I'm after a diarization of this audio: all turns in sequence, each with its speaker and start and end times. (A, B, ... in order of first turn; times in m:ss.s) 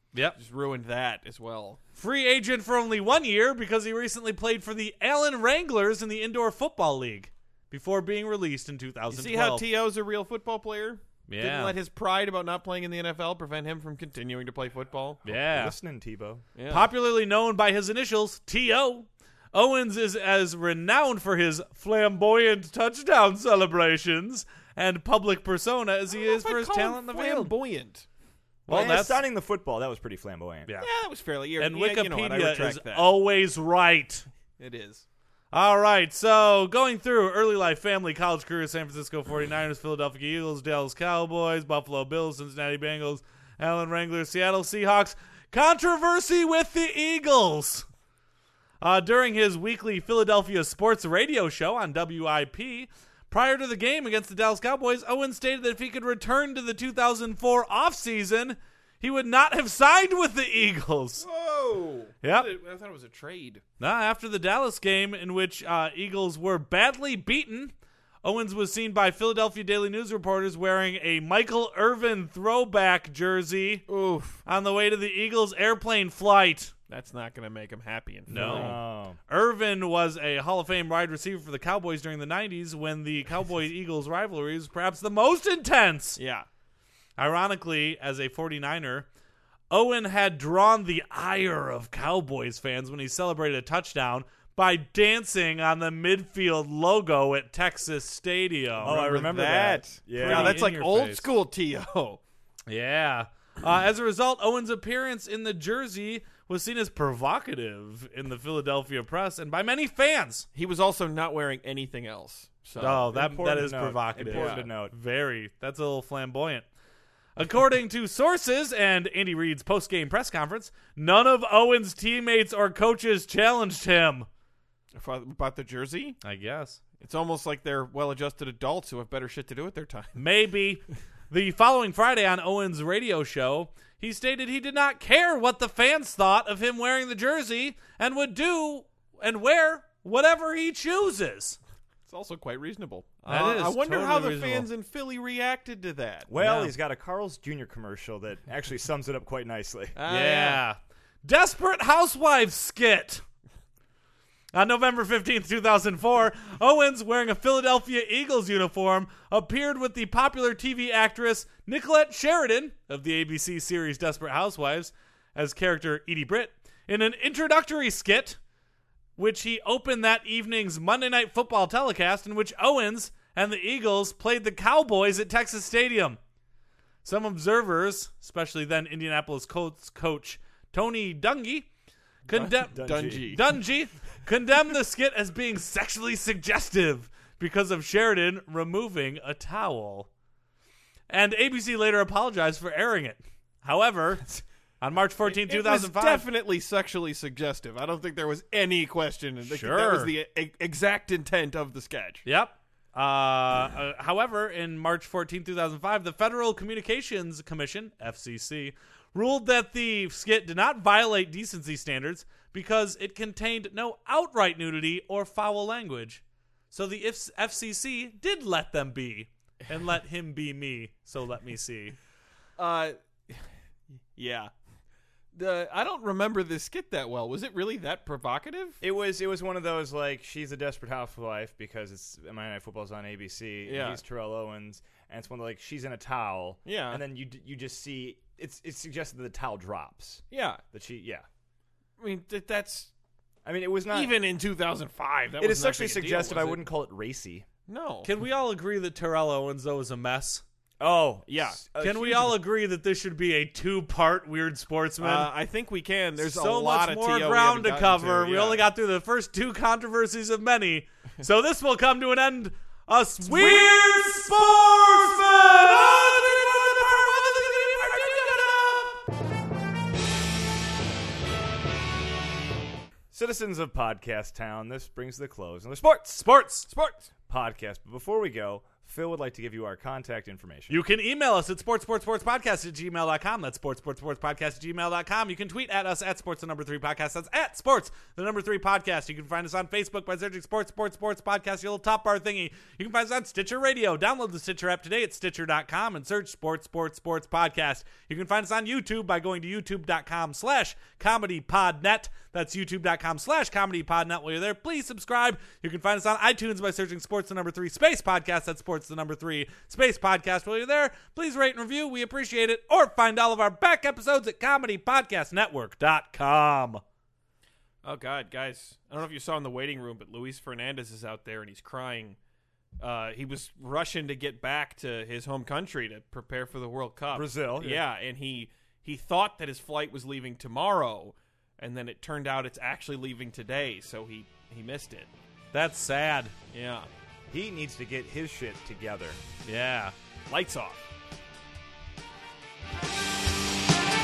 0:00.4-0:01.8 A
0:02.0-0:09.6 B
0:09.1-0:15.2 A
0:11.3-0:11.7 B
0:15.2-0:15.7 B
0:15.2-0:16.4 C
0:16.5-0:16.9 A
0:16.7-0:27.5 B
0:26.1-0:28.0 A
0:28.6-0:29.2 B
0:28.7-0:30.7 C
0:30.8-0:33.1 A
0:31.6-0:34.2 B
0:34.6-0:35.0 A
0:35.5-0:47.8 B
0:48.8-1:01.2 B
1:01.2-1:03.6 A
1:02.2-1:02.5 B
1:03.8-1:07.7 B
1:08.2-1:13.8 B
1:13.9-1:14.4 A
1:14.4-1:16.7 B
1:16.9-1:18.8 A
1:18.3-1:19.2 C
1:18.3-1:26.2 B
1:26.2-1:26.4 A
1:27.2-1:29.1 B
1:29.7-1:39.2 B
1:38.8-1:40.6 C
1:38.8-1:42.2 A
1:40.2-1:41.3 B
1:42.7-1:50.4 B
1:50.5-1:53.1 A
1:52.8-1:56.7 B
1:52.8-1:54.9 C
1:54.2-1:54.7 A
1:57.4-2:04.3 B
2:04.9-2:06.2 A
2:06.2-2:06.8 B
2:07.0-2:10.2 A
2:10.2-2:21.6 B
2:22.0-2:26.3 A
2:23.3-2:24.7 B
2:26.3-2:30.0 C
2:26.4-2:26.7 B
2:30.0-2:30.6 A
2:30.1-2:33.2 B
2:34.5-2:48.4 B
2:49.2-2:56.2 B
2:57.0-3:01.7 B
3:02.3-3:10.1 B
3:02.3-3:03.4 A
3:02.8-3:03.2 C
3:11.1-3:16.2 B
3:15.2-3:22.2 A
3:19.4-3:20.1 B
3:22.2-3:42.0 B
3:42.6-3:43.4 A
3:44.2-3:44.5 A
3:45.3-3:48.8 A
3:48.8-4:01.2 C
3:53.6-3:54.0 A
3:56.6-3:57.0 A
4:00.3-4:00.6 A
4:02.0-4:02.9 A
4:03.4-4:04.1 C
4:03.9-4:06.6 A
4:05.4-4:07.5 C
4:07.7-4:08.1 A
4:08.0-4:10.4 B
4:10.8-4:12.4 C
4:11.3-4:11.6 A
4:11.8-4:15.3 B
4:15.0-4:18.6 A
4:16.2-4:28.9 B
4:33.1-4:36.2 C
4:36.2-4:36.7 B
4:36.7-4:37.1 A
4:37.3-4:40.8 C
4:40.7-5:16.8 B
5:17.8-5:22.2 A
5:22.8-5:35.1 A
5:27.1-5:27.8 C
5:35.5-5:36.3 B
5:36.5-5:36.9 A
5:37.3-5:39.2 C
5:39.4-5:39.9 B
5:40.3-5:40.8 A